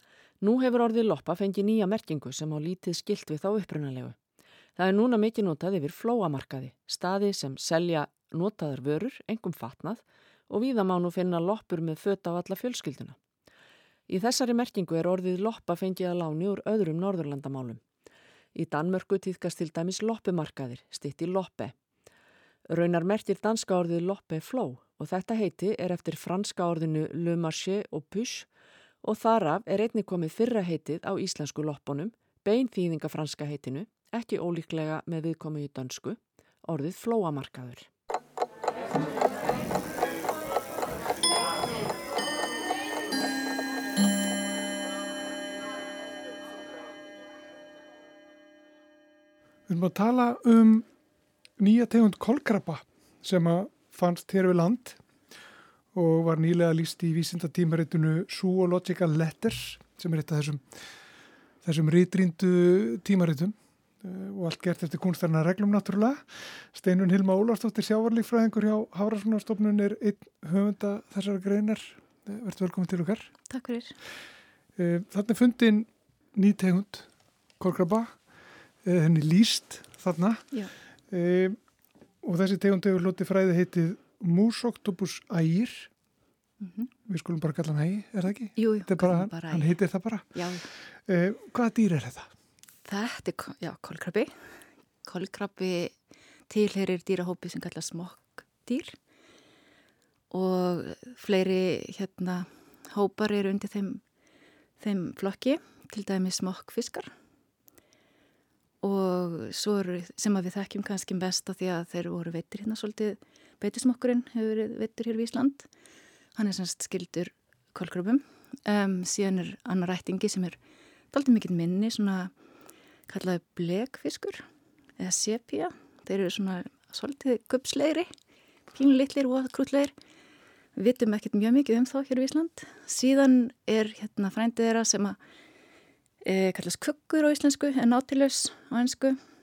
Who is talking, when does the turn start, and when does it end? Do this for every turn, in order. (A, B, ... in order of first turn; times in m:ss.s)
0:00.4-0:04.2 A
0:04.8-0:13.2 A
0:14.1-0:17.8 A
0:18.5-0:21.7 A
0:22.7-0:28.5 A
0:29.0-0:37.9 A
0:49.7-0:50.9 B
0:51.6-0:55.0 B
0:55.9-1:00.6 B
1:01.6-1:13.3 B
1:13.5-1:13.9 C
1:14.8-1:17.1 B
1:17.6-1:18.2 B
1:18.8-1:20.4 B
1:21.1-1:21.6 B
1:22.2-1:25.9 B
1:26.6-1:26.9 C
1:27.0-1:30.4 B
1:28.6-1:29.7 C
1:30.3-1:30.6 C
1:31.0-1:32.3 B
1:32.9-1:34.3 C
1:35.0-1:35.9 C
1:36.5-1:39.0 C
1:40.3-1:44.0 C
1:44.8-1:47.1 C
1:48.8-1:55.7 C
1:56.4-2:00.6 C
2:01.1-2:02.3 C
2:03.1-2:04.4 C
2:05.0-2:08.1 C
2:08.7-2:09.9 C
2:10.8-2:15.2 C
2:16.2-2:19.2 C